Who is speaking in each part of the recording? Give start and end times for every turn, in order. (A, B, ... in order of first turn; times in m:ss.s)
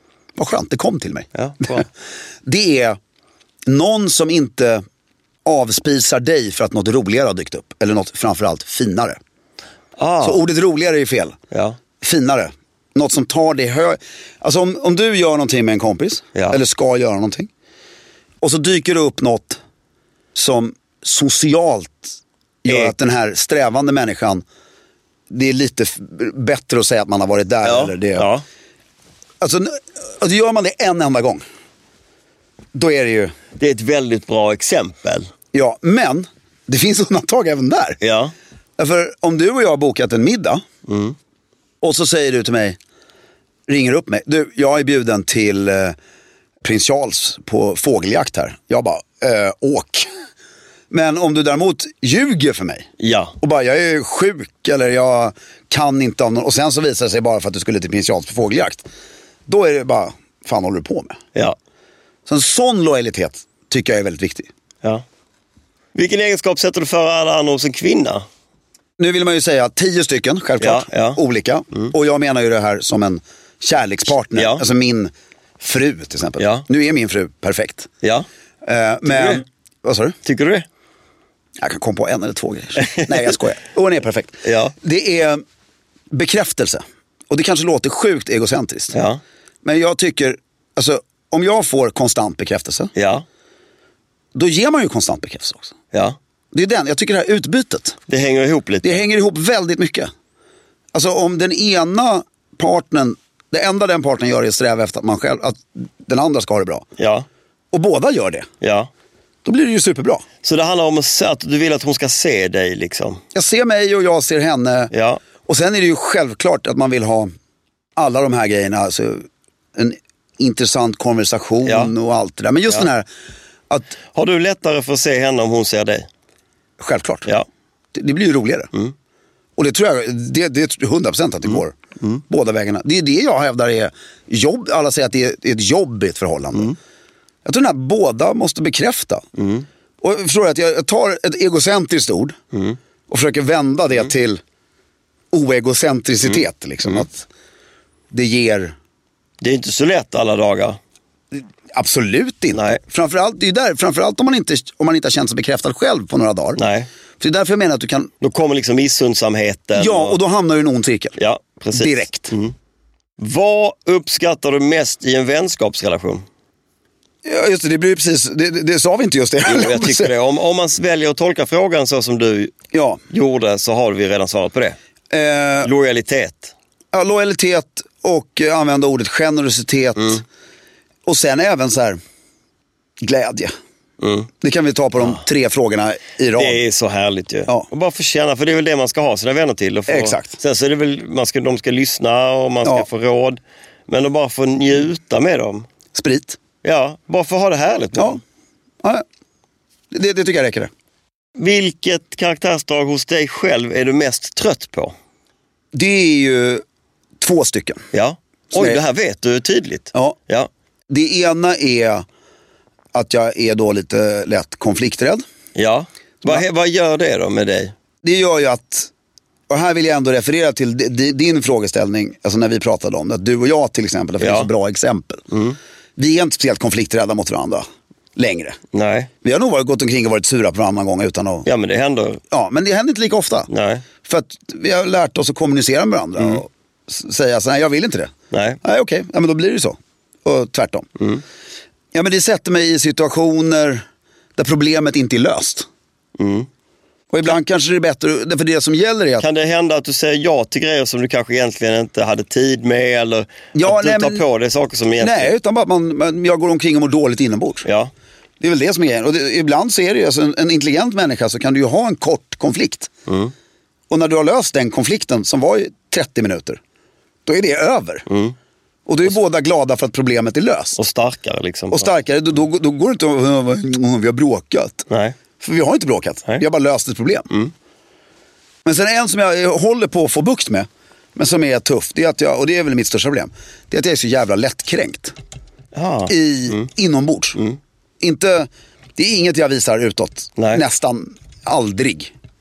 0:00.4-0:01.2 A
0:01.3-0:01.8 B
0:02.5-0:02.9 A
0:03.7-0:04.7 A
0:05.5-0:09.1 A
0:10.0-0:10.4 B
0:10.2-0:11.3 A
0:11.5-0:11.8 B
0:12.1-0:12.4 A
0:13.0-0:13.9 A
0:14.4-0:17.4 A
0:16.3-0:16.6 B
0:18.4-0:19.4 A
0:20.4-0:21.8 A
0:22.6-0:22.9 B
0:22.7-0:24.4 A
0:25.4-0:28.2 A
0:27.6-0:28.4 B
0:30.2-0:31.4 A
0:32.8-0:33.3 A
0:33.6-0:35.3 B
0:35.5-0:36.2 A
0:36.7-0:37.9 A
0:38.0-0:38.3 B
0:38.8-0:40.6 A
0:40.8-0:41.2 B
0:41.8-0:42.7 A
0:43.7-0:45.8 A
0:46.7-0:49.9 A
0:50.9-0:52.8 A
0:53.0-0:53.3 B
0:53.4-0:58.8 A
0:59.5-1:01.1 A
1:02.3-1:04.4 A
1:05.9-1:08.2 B
1:09.0-1:15.0 A
1:10.6-1:11.2 B
1:14.3-1:14.6 B
1:15.6-1:17.8 A
1:16.4-1:16.6 B
1:18.0-1:18.3 B
1:18.7-1:20.1 A
1:19.0-1:19.4 B
1:20.2-1:20.6 B
1:21.7-1:24.2 A
1:22.8-1:23.3 B
1:24.4-1:24.7 B
1:24.8-1:25.3 A
1:26.2-1:26.8 A
1:27.3-1:28.9 A
1:28.9-1:29.2 B
1:29.7-1:32.9 A
1:32.9-1:33.2 B
1:34.4-1:35.6 A
1:36.6-1:37.9 A
1:38.1-1:39.0 B
1:38.8-1:40.0 A
1:41.0-1:45.5 A
1:46.1-1:46.8 A
1:47.0-1:47.3 B
1:47.7-1:48.4 A
1:48.6-1:48.9 B
1:49.5-1:50.2 A
1:50.4-1:53.2 B
1:53.4-1:54.8 A
1:54.9-1:55.2 B
1:55.5-1:57.2 A
1:58.0-1:59.1 A
2:00.4-2:03.0 A
2:01.6-2:01.9 B
2:04.1-2:06.1 B
2:06.8-2:07.2 A
2:08.0-2:08.6 A
2:09.6-2:11.7 A
2:12.3-2:16.7 A
2:17.4-2:19.2 A
2:19.4-2:19.7 B
2:20.0-2:22.3 A
2:22.5-2:22.8 B
2:23.1-2:24.4 A
2:25.3-2:27.1 A
2:26.3-2:27.0 B
2:28.1-2:28.7 A
2:29.4-2:30.8 B
2:31.8-2:36.6 A
2:32.5-2:32.8 B
2:36.6-2:36.9 B
2:37.2-2:38.1 A
2:38.2-2:40.2 B
2:39.8-2:41.1 A
2:41.2-2:42.5 B
2:41.8-2:42.3 A
2:43.2-2:46.2 B
2:47.3-2:50.1 A
2:49.4-2:52.5 B
2:52.7-2:53.0 A
2:53.1-2:54.8 B
2:55.1-2:55.7 A
2:55.6-2:56.5 B
2:56.9-3:00.2 A
3:01.1-3:02.0 A
3:03.0-3:03.5 A
3:04.0-3:04.3 B
3:04.4-3:06.6 A
3:05.0-3:05.2 B
3:06.4-3:15.6 B
3:09.9-3:10.3 A
3:16.0-3:16.3 A
3:16.6-3:18.2 B
3:19.9-3:20.7 A
3:21.4-3:24.9 B
3:25.7-3:26.6 A
3:27.2-3:27.8 A
3:27.9-3:30.5 B
3:30.9-3:32.0 A
3:32.9-3:35.2 A
3:35.5-3:37.7 B
3:38.0-3:38.9 A
3:39.5-3:45.2 A
3:44.2-3:44.5 B
3:45.3-3:45.6 B
3:46.0-3:47.6 A
3:48.2-3:48.6 A
3:48.7-3:49.1 B
3:49.2-3:51.4 A
3:51.4-3:52.2 B
3:52.3-3:53.5 A
3:53.5-3:53.8 B
3:54.1-3:58.1 A
3:58.3-3:58.6 B
3:58.6-4:00.8 A
4:01.0-4:01.2 B
4:01.9-4:03.8 A
4:04.4-4:05.6 A
4:06.2-4:06.5 B
4:07.1-4:09.2 A
4:09.2-4:15.3 B
4:13.5-4:14.2 A
4:15.0-4:17.6 A
4:17.6-4:17.9 B
4:18.4-4:22.9 A
4:23.1-4:23.3 B
4:23.9-4:26.6 A
4:27.2-4:28.0 A
4:28.1-4:28.4 B
4:28.9-4:30.8 A
4:30.8-4:31.9 B
4:31.7-4:34.8 A
4:34.9-4:35.2 B
4:35.4-4:37.2 A
4:38.6-4:45.1 A
4:45.7-4:46.7 B
4:46.1-4:47.4 A
4:48.0-4:52.1 A
4:50.4-4:50.6 B